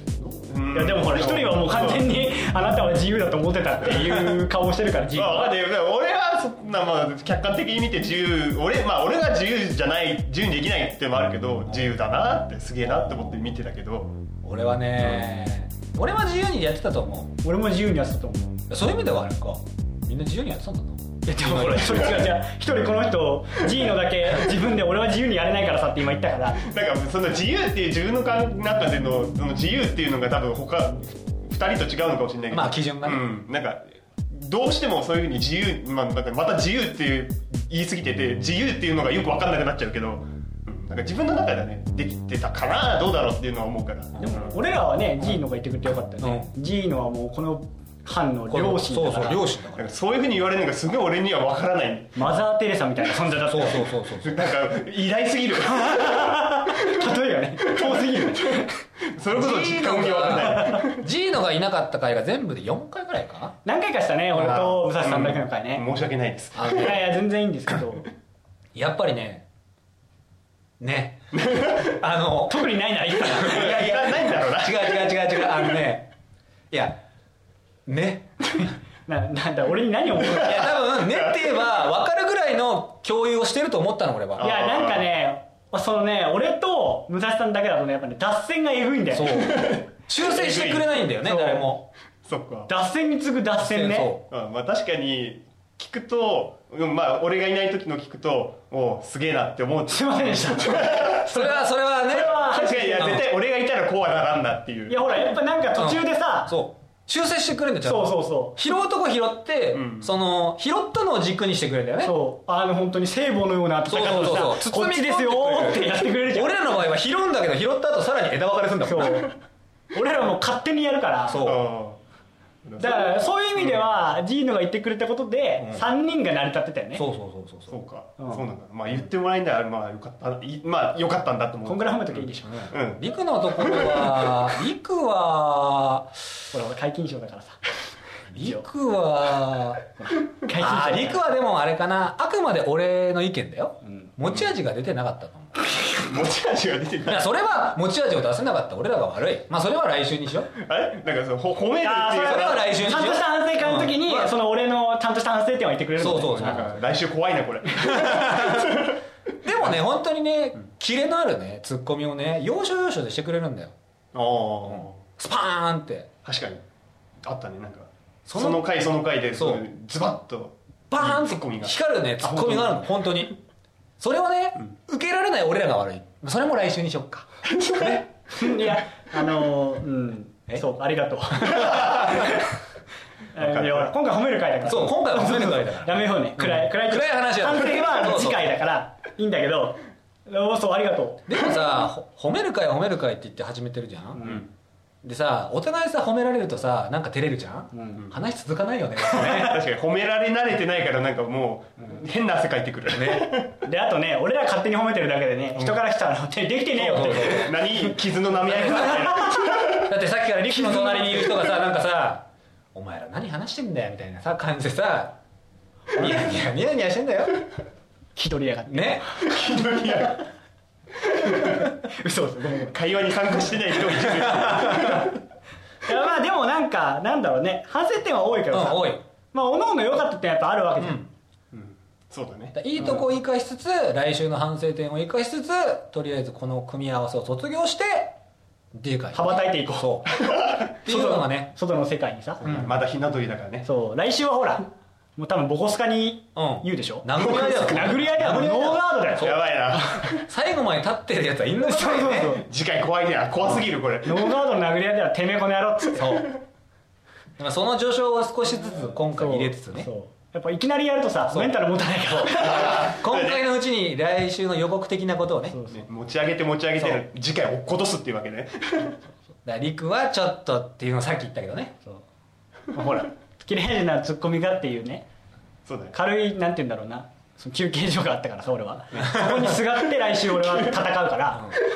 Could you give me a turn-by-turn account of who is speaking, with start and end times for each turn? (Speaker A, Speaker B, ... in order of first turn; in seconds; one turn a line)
Speaker A: 0.2-2.1
Speaker B: 0.7-5.5
Speaker A: 5.1-14.2
Speaker C: 14.4-17.3
Speaker B: 17.4-18.6
Speaker C: 18.7-22.1
Speaker B: 21.2-26.6
Speaker A: 21.6-22.2
Speaker A: 26.6-44.6
Speaker C: 32.5-33.2
Speaker B: 44.2-49.4
Speaker C: 46.2-46.5
Speaker C: 48.5-49.9
Speaker A: 49.7-52.2
Speaker B: 52.1-53.9
Speaker C: 53.4-54.4
Speaker A: 54.2-56.9
Speaker B: 55.7-58.8
Speaker A: 57.6-61.0
Speaker C: 59.3-63.5
Speaker B: 63.6-65.8
Speaker A: 64.3-67.0
Speaker C: 66.5-67.0
Speaker B: 66.8-68.1
Speaker C: 68.7-69.4
Speaker C: 70.8-76.1
Speaker A: 71.3-71.9
Speaker B: 72.5-73.9
Speaker A: 73.4-75.6
Speaker C: 76.7-77.0
Speaker C: 77.9-78.7
Speaker B: 79.0-80.8
Speaker C: 80.2-84.5
Speaker A: 81.1-81.4
Speaker A: 84.4-85.1
Speaker B: 84.4-89.6
Speaker C: 89.1-91.8
Speaker A: 89.4-91.0
Speaker B: 91.2-91.8
Speaker A: 92.2-92.7
Speaker B: 92.7-94.2
Speaker C: 93.6-94.2
Speaker A: 94.3-101.4
Speaker B: 99.9-103.2
Speaker C: 101.0-103.3
Speaker A: 102.1-105.0
Speaker B: 104.9-106.5
Speaker C: 105.8-112.1
Speaker B: 107.8-108.6
Speaker A: 109.7-110.1
Speaker B: 112.0-116.6
Speaker C: 113.9-119.3
Speaker B: 118.9-119.3
Speaker B: 119.9-121.5
Speaker C: 121.3-121.6
Speaker A: 121.3-122.0
Speaker A: 122.6-123.8
Speaker B: 122.8-127.0
Speaker C: 125.6-125.8
Speaker C: 126.9-127.8
Speaker A: 127.7-134.4
Speaker B: 128.2-128.4
Speaker B: 131.6-132.7
Speaker C: 132.5-136.1
Speaker B: 136.5-137.6
Speaker B: 138.3-138.6
Speaker C: 138.3-139.8
Speaker B: 140.0-141.2
Speaker C: 140.5-145.7
Speaker A: 145.9-147.3
Speaker C: 147.1-150.5
Speaker A: 150.5-152.7
Speaker B: 151.8-156.7
Speaker C: 152.1-154.3
Speaker C: 156.0-156.8
Speaker A: 156.4-159.0
Speaker C: 157.8-158.9
Speaker C: 159.4-163.7
Speaker A: 164.1-165.0
Speaker C: 164.7-166.1
Speaker A: 166.2-166.6
Speaker A: 167.2-171.8
Speaker C: 168.3-168.7
Speaker C: 169.3-169.6
Speaker C: 170.9-173.4
Speaker A: 172.3-172.6
Speaker C: 174.0-178.1
Speaker A: 177.5-178.0
Speaker B: 178.3-182.5
Speaker C: 181.4-182.4
Speaker B: 183.3-191.4
Speaker A: 183.4-183.9
Speaker C: 184.6-188.5
Speaker C: 191.3-194.3
Speaker B: 194.2-194.5
Speaker C: 195.0-199.6
Speaker B: 197.7-198.0
Speaker B: 199.1-199.4
Speaker A: 199.2-203.7
Speaker C: 202.9-203.4
Speaker B: 203.6-209.6
Speaker C: 206.7-207.6
Speaker A: 206.8-209.8
Speaker C: 208.5-209.1
Speaker C: 209.7-215.2
Speaker B: 210.5-211.5
Speaker C: 215.9-217.4
Speaker B: 218.2-219.2
Speaker C: 218.7-219.1
Speaker A: 219.2-220.2
Speaker B: 221.3-222.8
Speaker A: 222.7-225.2
Speaker C: 224.3-225.1
Speaker B: 225.8-231.0
Speaker C: 228.5-229.0
Speaker C: 230.8-231.1
Speaker A: 231.5-232.5
Speaker C: 232.5-238.2
Speaker C: 238.7-240.1
Speaker B: 239.1-242.4
Speaker A: 240.2-240.6
Speaker C: 240.8-241.5
Speaker A: 242.4-243.7
Speaker C: 242.4-242.8
Speaker B: 243.6-250.0
Speaker C: 246.3-249.4
Speaker A: 247.2-247.6
Speaker A: 249.2-250.2
Speaker C: 250.0-252.4
Speaker B: 251.5-252.4
Speaker A: 252.4-254.3
Speaker B: 254.0-256.3
Speaker C: 255.9-256.3
Speaker C: 257.4-259.9
Speaker B: 259.1-262.9
Speaker C: 262.0-265.6
Speaker A: 262.5-263.4
Speaker B: 265.5-265.8
Speaker A: 265.7-269.0
Speaker C: 269.4-271.7
Speaker B: 272.7-275.1
Speaker A: 275.6-275.9
Speaker B: 275.9-281.6